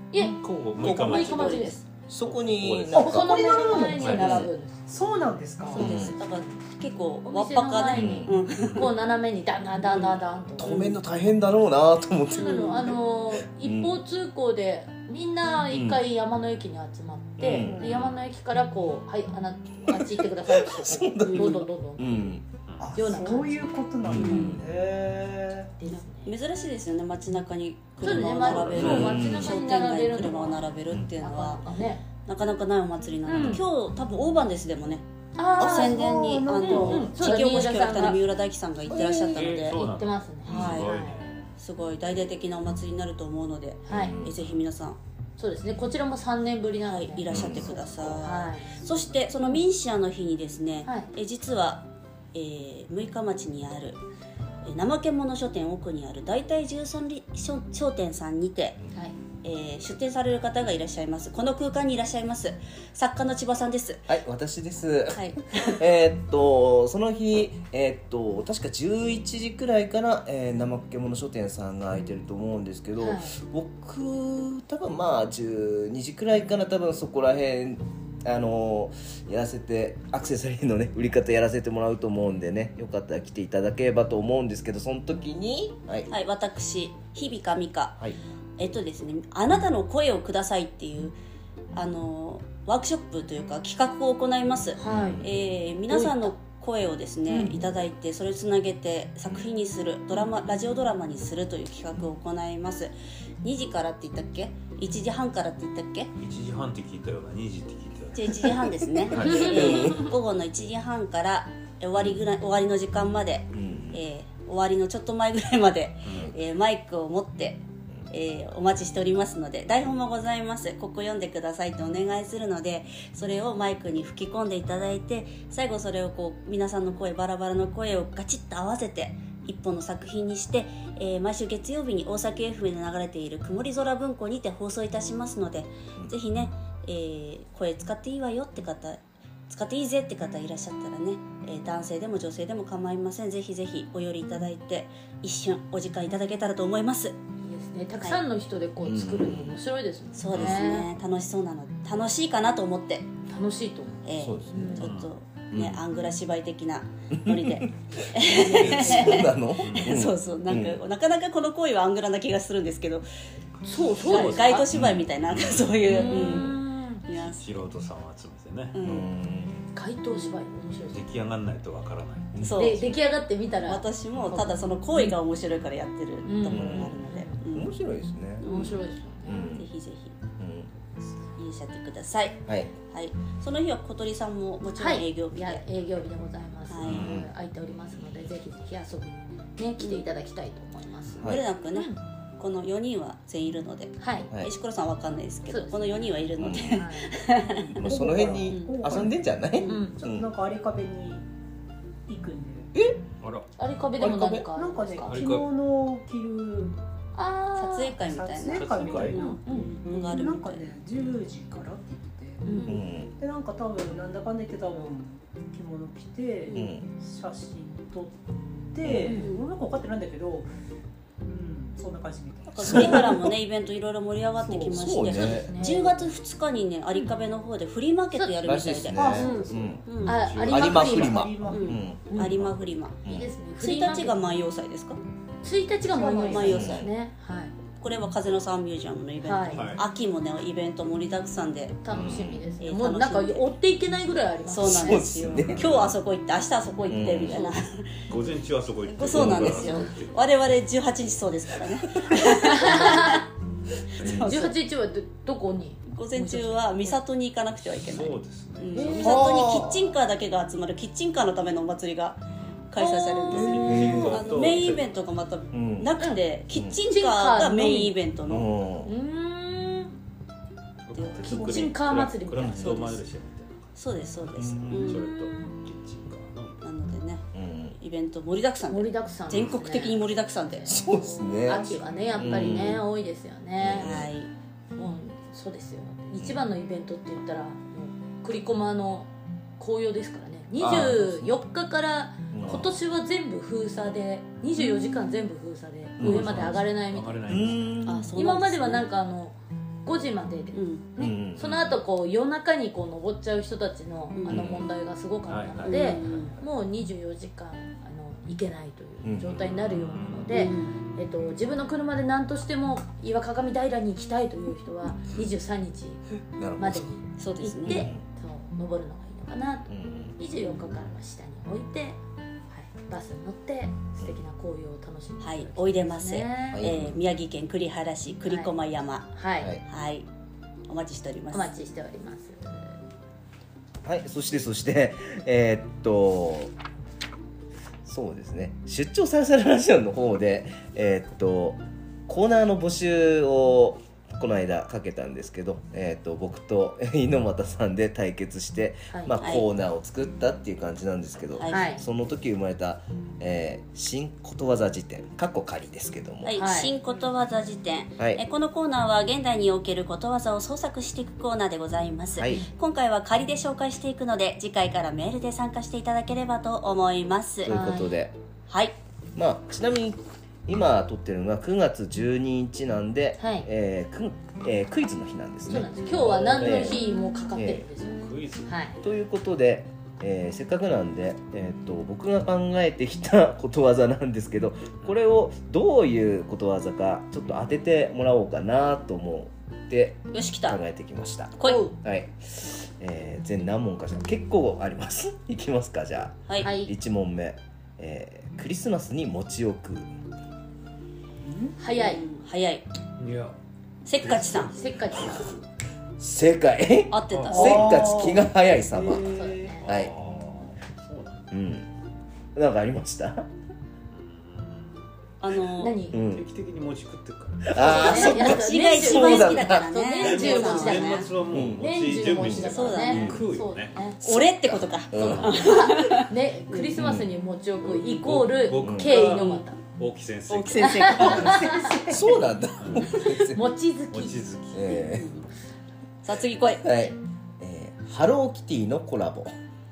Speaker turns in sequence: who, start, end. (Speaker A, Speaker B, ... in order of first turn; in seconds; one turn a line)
Speaker A: 0.1-1.8
Speaker B: 0.2-3.1
Speaker C: 0.8-1.8
Speaker D: 2.1-4.5
Speaker E: 2.9-5.8
Speaker A: 2.9-4.8
Speaker B: 4.0-4.4
Speaker C: 5.7-8.9
Speaker D: 5.8-6.2
Speaker A: 5.8-6.6
Speaker A: 7.2-10.9
Speaker D: 7.9-8.3
Speaker C: 9.8-10.9
Speaker D: 10.6-13.0
Speaker A: 12.3-22.2
Speaker C: 12.3-12.9
Speaker D: 13.5-13.9
Speaker D: 15.7-16.0
Speaker D: 17.4-17.9
Speaker B: 17.9-18.1
Speaker D: 19.8-22.4
Speaker C: 21.2-21.6
Speaker B: 22.7-22.9
Speaker E: 22.8-25.7
Speaker A: 22.9-23.6
Speaker D: 24.1-24.7
Speaker C: 24.1-24.6
Speaker A: 25.8-26.3
Speaker C: 25.9-31.7
Speaker A: 28.0-32.0
Speaker B: 28.0-29.2
Speaker D: 28.7-29.5
Speaker C: 32.2-39.8
Speaker A: 33.2-33.6
Speaker A: 35.4-35.9
Speaker E: 35.6-37.2
Speaker A: 36.6-38.2
Speaker A: 38.9-41.1
Speaker B: 39.2-41.5
Speaker C: 40.4-41.0
Speaker C: 41.6-45.0
Speaker A: 43.9-44.2
Speaker D: 43.9-44.3
Speaker A: 45.4-48.7
Speaker C: 46.8-54.0
Speaker B: 47.3-48.3
Speaker D: 47.3-47.6
Speaker A: 50.8-51.1
Speaker C: 54.6-58.8
Speaker C: 59.4-64.1
Speaker D: 64.1-86.1
Speaker C: 65.1-65.8
Speaker A: 73.0-73.3
Speaker C: 86.1-88.0
Speaker C: 88.6-91.2
Speaker C: 91.7-102.9
Speaker A: 94.8-95.2
Speaker D: 94.8-95.3
Speaker A: 95.9-96.4
Speaker C: 103.4-106.1
Speaker B: 106.2-109.6
Speaker C: 108.1-147.2
Speaker A: 109.1-110.1
Speaker D: 109.3-110.1
Speaker D: 112.0-112.2
Speaker D: 113.5-114.0
Speaker B: 116.0-116.3
Speaker A: 147.4-150.9
Speaker B: 148.8-149.5
Speaker C: 150.1-153.1
Speaker B: 150.3-150.6
Speaker A: 153.3-154.9
Speaker C: 154.0-163.1
Speaker D: 154.2-154.9
Speaker B: 154.8-155.1
Speaker D: 155.5-155.8
Speaker D: 157.1-160.8
Speaker A: 158.3-159.3
Speaker B: 159.6-160.0
Speaker B: 163.6-166.2
Speaker A: 163.7-164.7
Speaker C: 164.0-167.7
Speaker A: 165.8-167.0
Speaker D: 166.1-166.5
Speaker B: 167.1-168.8
Speaker C: 168.7-169.1
Speaker D: 168.8-169.6
Speaker A: 169.7-171.2
Speaker C: 170.1-170.4
Speaker B: 170.9-173.0
Speaker D: 172.3-172.8
Speaker C: 172.4-172.8
Speaker A: 172.5-175.2
Speaker C: 173.6-177.7
Speaker B: 174.2-174.4
Speaker A: 176.2-177.4
Speaker D: 176.5-176.9
Speaker D: 177.5-178.5
Speaker C: 178.4-178.8
Speaker A: 178.4-179.5
Speaker D: 179.2-179.7
Speaker C: 179.5-180.1
Speaker D: 180.4-180.7
Speaker C: 181.3-185.6
Speaker D: 182.5-182.7
Speaker A: 184.7-192.0
Speaker C: 186.7-187.1
Speaker D: 186.8-187.3
Speaker C: 189.8-190.0
Speaker D: 191.2-191.4
Speaker C: 191.2-197.8
Speaker A: 194.0-194.3
Speaker A: 195.5-197.1
Speaker D: 196.4-196.8
Speaker D: 197.7-200.3
Speaker E: 197.8-201.2
Speaker C: 198.5-198.9
Speaker A: 199.7-199.9
Speaker E: 202.1-202.7
Speaker D: 202.7-203.0
Speaker B: 203.2-203.5
Speaker A: 203.6-205.3
Speaker D: 204.0-204.4
Speaker E: 204.5-206.8
Speaker B: 205.0-205.5
Speaker A: 207.1-207.9
Speaker C: 207.5-210.7
Speaker E: 208.0-212.5
Speaker B: 208.4-209.3
Speaker A: 209.4-209.7
Speaker A: 212.4-212.8
Speaker D: 212.7-213.1
Speaker E: 213.2-218.2
Speaker C: 216.4-216.7
Speaker D: 216.5-216.9
Speaker E: 218.7-220.5
Speaker D: 218.8-219.1
Speaker A: 219.0-219.3
Speaker C: 219.1-219.5
Speaker E: 221.2-223.1
Speaker C: 222.5-230.2
Speaker D: 222.6-223.3
Speaker E: 224.4-224.8
Speaker D: 224.7-225.5
Speaker A: 225.1-226.1
Speaker A: 228.1-228.6
Speaker D: 228.4-233.3
Speaker E: 228.9-229.9
Speaker A: 230.0-231.2
Speaker E: 230.4-231.8
Speaker C: 231.5-233.0
Speaker A: 232.1-232.3
Speaker A: 233.0-234.4
Speaker C: 233.6-235.0
Speaker A: 235.4-237.5
Speaker E: 235.9-236.6
Speaker C: 236.0-236.8
Speaker D: 236.4-236.9
Speaker C: 237.8-241.8
Speaker A: 239.2-239.7
Speaker B: 239.5-239.8
Speaker A: 241.8-245.1
Speaker D: 241.9-242.4
Speaker C: 242.6-243.5
Speaker C: 244.5-248.0
Speaker D: 244.6-245.7
Speaker B: 245.3-246.0
Speaker D: 246.9-247.4
Speaker A: 247.3-247.6
Speaker B: 248.1-250.4
Speaker C: 248.8-253.2
Speaker D: 249.1-249.8
Speaker A: 252.1-253.2
Speaker C: 254.0-254.6
Speaker D: 254.0-254.3
Speaker A: 254.2-256.9
Speaker C: 255.9-268.6
Speaker B: 257.6-259.0
Speaker A: 258.7-259.3
Speaker D: 259.0-259.9
Speaker A: 262.8-264.1
Speaker B: 263.3-264.9
Speaker D: 263.4-264.3
Speaker D: 265.5-265.9
Speaker A: 266.0-266.2
Speaker D: 266.5-266.8
Speaker A: 266.8-268.0
Speaker D: 268.2-268.9
Speaker A: 268.8-269.9
Speaker B: 270.9-276.7
Speaker C: 270.9-271.7
Speaker A: 271.2-273.0
Speaker C: 272.4-273.0
Speaker C: 273.8-275.1
Speaker D: 274.3-275.0
Speaker A: 275.1-275.3
Speaker C: 276.6-277.2
Speaker D: 277.3-277.7
Speaker C: 277.7-280.8
Speaker A: 278.7-283.9
Speaker D: 280.6-282.8
Speaker D: 283.6-284.1
Speaker C: 283.8-284.3
Speaker A: 284.7-297.6
Speaker D: 290.6-291.4
Speaker D: 292.3-292.7
Speaker B: 292.4-292.7
Speaker D: 296.0-296.5
Speaker B: 296.0-297.8
Speaker D: 297.3-298.1
Speaker C: 297.9-298.9
Speaker A: 298.1-316.0
Speaker C: 300.5-300.9
Speaker D: 301.0-301.5
Speaker B: 301.4-301.8
Speaker C: 304.1-304.5
Speaker D: 304.3-304.7
Speaker B: 305.3-306.3
Speaker C: 305.6-306.4
Speaker D: 309.0-309.4
Speaker C: 310.3-310.8
Speaker D: 316.4-317.0
Speaker A: 316.6-326.7
Speaker C: 317.2-317.9
Speaker D: 317.6-318.0
Speaker D: 319.7-320.1
Speaker C: 325.2-330.1
Speaker D: 326.5-326.9
Speaker A: 328.2-328.5
Speaker A: 329.1-329.6
Speaker C: 330.7-331.5
Speaker A: 331.3-332.8
Speaker D: 333.8-336.5
Speaker D: 337.8-356.3
Speaker A: 348.9-349.2
Speaker C: 349.2-349.4
Speaker C: 351.4-351.7
Speaker A: 351.5-351.8
Speaker C: 356.2-367.5
Speaker A: 356.3-356.7
Speaker D: 362.1-362.4
Speaker D: 367.4-368.1
Speaker A: 367.5-368.0
Speaker C: 368.5-368.8
Speaker D: 369.1-376.8
Speaker A: 373.2-373.5
Speaker A: 375.4-378.8
Speaker B: 375.9-376.7
Speaker D: 377.3-377.7
Speaker B: 377.8-378.5
Speaker D: 378.8-399.9
Speaker C: 390.1-390.6
Speaker C: 391.4-391.7
Speaker A: 391.4-391.8
Speaker A: 396.4-396.7
Speaker E: 401.2-401.6
Speaker A: 401.6-402.0
Speaker C: 401.7-402.6
Speaker B: 403.0-403.3
Speaker C: 403.8-404.5
Speaker B: 403.9-404.6
Speaker A: 404.4-405.4
Speaker D: 406.0-409.9
Speaker C: 406.9-407.9
Speaker B: 407.1-407.5
Speaker E: 407.3-408.3
Speaker C: 408.7-409.2
Speaker E: 408.9-409.6
Speaker A: 409.1-409.7
Speaker B: 409.6-411.3
Speaker D: 411.3-411.7
Speaker D: 412.3-413.2
Speaker B: 413.9-414.9
Speaker C: 415.2-415.8
Speaker A: 415.6-416.0
Speaker D: 415.9-416.3
Speaker B: 416.1-417.8
Speaker D: 417.4-419.7
Speaker A: 417.5-424.0
Speaker C: 417.6-421.1
Speaker B: 420.0-423.7
Speaker D: 421.3-421.6
Speaker D: 422.1-423.2
Speaker C: 422.4-423.2
Speaker C: 424.0-426.8
Speaker D: 424.0-425.4
Speaker A: 424.9-429.6
Speaker B: 425.0-425.4
Speaker D: 426.8-427.1
Speaker B: 427.6-429.1
Speaker D: 428.6-429.1
Speaker C: 428.9-429.5
Speaker B: 429.7-431.3
Speaker C: 430.3-431.6
Speaker A: 430.6-431.8
Speaker E: 431.0-432.2
Speaker D: 431.9-433.4
Speaker B: 432.6-433.0
Speaker A: 432.9-434.2
Speaker B: 433.9-434.7
Speaker D: 434.5-435.1
Speaker C: 434.9-435.2
Speaker C: 436.0-436.9
Speaker D: 436.4-439.3